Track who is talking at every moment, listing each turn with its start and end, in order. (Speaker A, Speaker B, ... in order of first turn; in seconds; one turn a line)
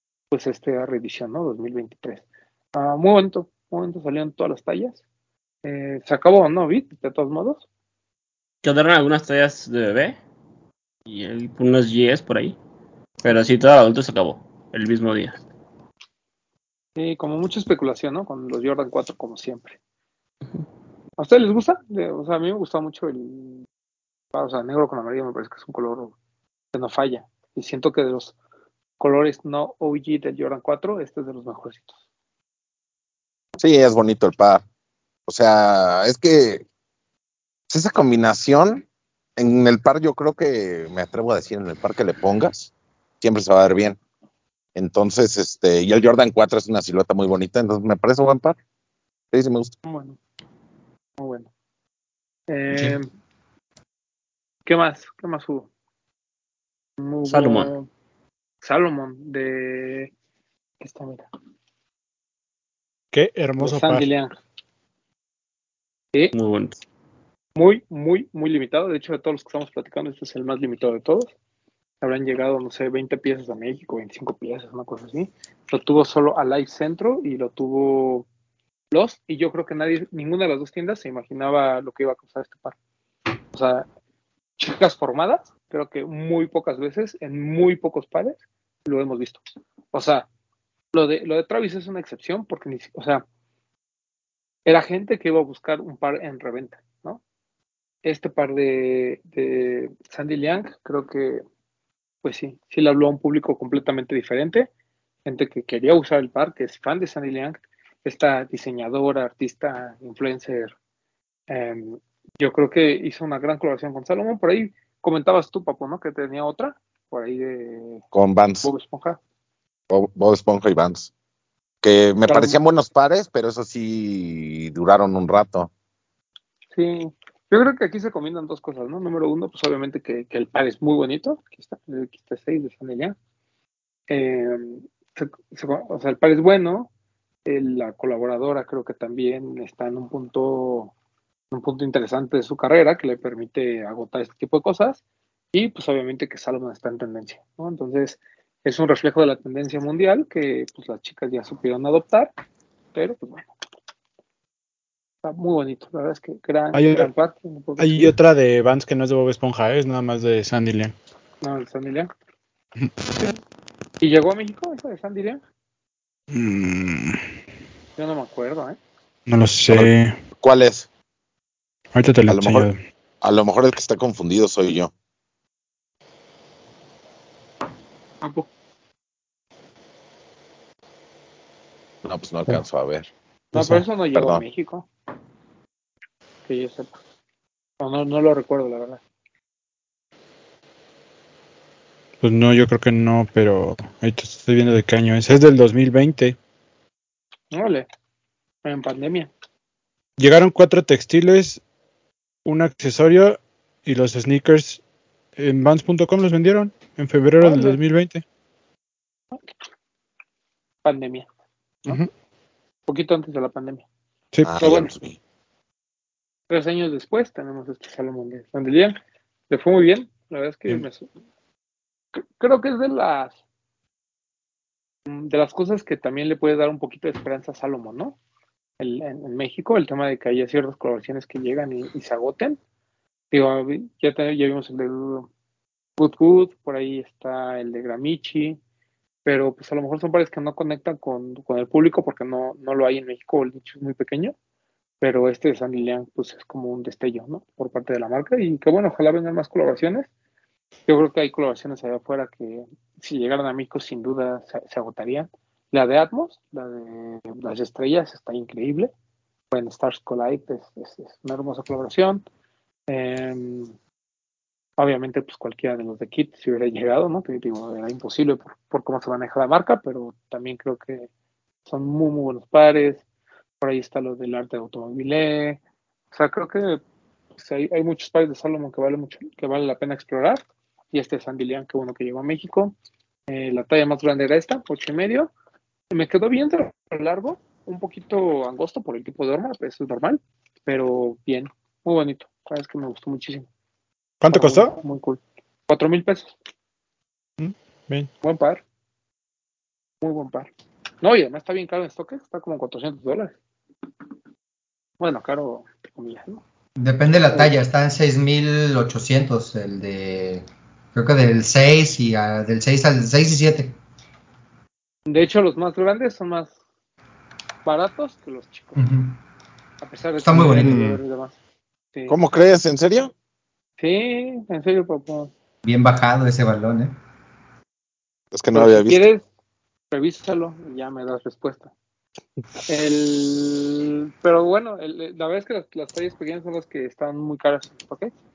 Speaker A: 0.3-2.2
Speaker A: 2.8-5.0
Speaker A: 5.6-7.7
Speaker B: 8.6-10.2
Speaker B: 11.1-12.6
Speaker B: 13.2-15.4
Speaker A: 17.0-19.8
Speaker A: 21.2-23.7
Speaker A: 24.3-26.1
Speaker A: 26.7-28.4
Speaker A: 29.0-31.9
Speaker C: 33.6-34.6
Speaker C: 35.3-36.6
Speaker C: 37.7-38.9
Speaker C: 39.4-44.0
Speaker C: 44.8-48.6
Speaker C: 49.3-49.7
Speaker A: 49.9-50.2
Speaker A: 51.2-51.5
Speaker A: 52.5-53.1
Speaker D: 52.7-53.0
Speaker A: 54.6-55.7
Speaker A: 57.0-57.9
Speaker B: 57.3-57.7
Speaker A: 58.6-60.1
Speaker A: 60.8-61.3
Speaker E: 63.1-64.1
Speaker A: 63.6-64.4
Speaker B: 66.3-66.8
Speaker A: 67.6-71.3
Speaker A: 72.0-78.3
Speaker A: 78.9-82.8
Speaker A: 83.5-83.9
Speaker A: 84.6-90.3
Speaker A: 90.9-93.2
Speaker A: 94.7-97.2
Speaker A: 98.0-101.4
Speaker A: 102.2-104.7
Speaker A: 105.3-110.7
Speaker A: 111.5-118.0
Speaker C: 118.1-118.7
Speaker A: 118.6-119.2
Speaker C: 119.9-121.1
Speaker C: 121.8-125.7
Speaker A: 122.3-122.6
Speaker A: 126.7-133.2
Speaker A: 134.1-136.9
Speaker A: 137.5-140.9
Speaker A: 141.5-145.0
Speaker A: 145.5-152.3
Speaker A: 152.9-153.5
Speaker A: 155.2-158.1
Speaker E: 156.7-157.1
Speaker E: 157.8-160.9
Speaker A: 161.4-162.1
Speaker A: 164.0-165.4
Speaker E: 166.3-167.2
Speaker A: 168.0-168.8
Speaker E: 169.3-170.2
Speaker C: 169.7-170.9
Speaker E: 171.9-172.8
Speaker C: 172.3-172.7
Speaker C: 173.2-174.9
Speaker C: 182.0-183.1
Speaker A: 183.6-184.9
Speaker E: 183.6-183.8
Speaker C: 183.6-184.4
Speaker A: 186.5-186.9
Speaker A: 187.8-189.0
Speaker E: 192.2-196.4
Speaker A: 197.5-197.9
Speaker A: 198.7-199.3
Speaker E: 200.2-201.6
Speaker E: 202.4-204.8
Speaker E: 205.4-208.2
Speaker A: 207.4-207.8
Speaker A: 210.8-211.3
Speaker A: 212.9-213.8
Speaker E: 214.3-214.7
Speaker C: 214.4-215.2
Speaker A: 214.6-214.9
Speaker A: 216.5-219.0
Speaker A: 219.5-221.1
Speaker A: 222.1-223.4
Speaker A: 225.1-228.2
Speaker A: 228.8-232.6
Speaker A: 233.3-235.3
Speaker A: 236.0-238.6
Speaker A: 239.2-244.3
Speaker A: 245.0-250.1
Speaker A: 250.9-258.9
Speaker A: 259.5-262.2
Speaker A: 262.9-263.8
Speaker A: 264.8-271.1
Speaker A: 271.7-273.0
Speaker A: 273.6-275.6
Speaker A: 276.1-276.8
Speaker A: 277.4-282.8
Speaker A: 283.3-285.3
Speaker A: 285.9-293.5
Speaker E: 294.2-294.7
Speaker A: 294.3-296.3
Speaker E: 297.4-298.1
Speaker A: 298.2-298.6
Speaker A: 300.0-300.5
Speaker A: 301.0-303.4
Speaker A: 305.0-306.4
Speaker D: 306.8-313.8
Speaker A: 315.1-316.6
Speaker A: 317.7-318.8
Speaker D: 318.8-319.2
Speaker A: 319.8-321.4
Speaker D: 320.2-320.8
Speaker E: 320.4-320.9
Speaker C: 322.1-323.1
Speaker A: 323.8-325.3
Speaker D: 325.6-326.9
Speaker C: 328.3-329.1
Speaker A: 328.5-329.2
Speaker A: 329.9-331.7
Speaker A: 332.7-338.1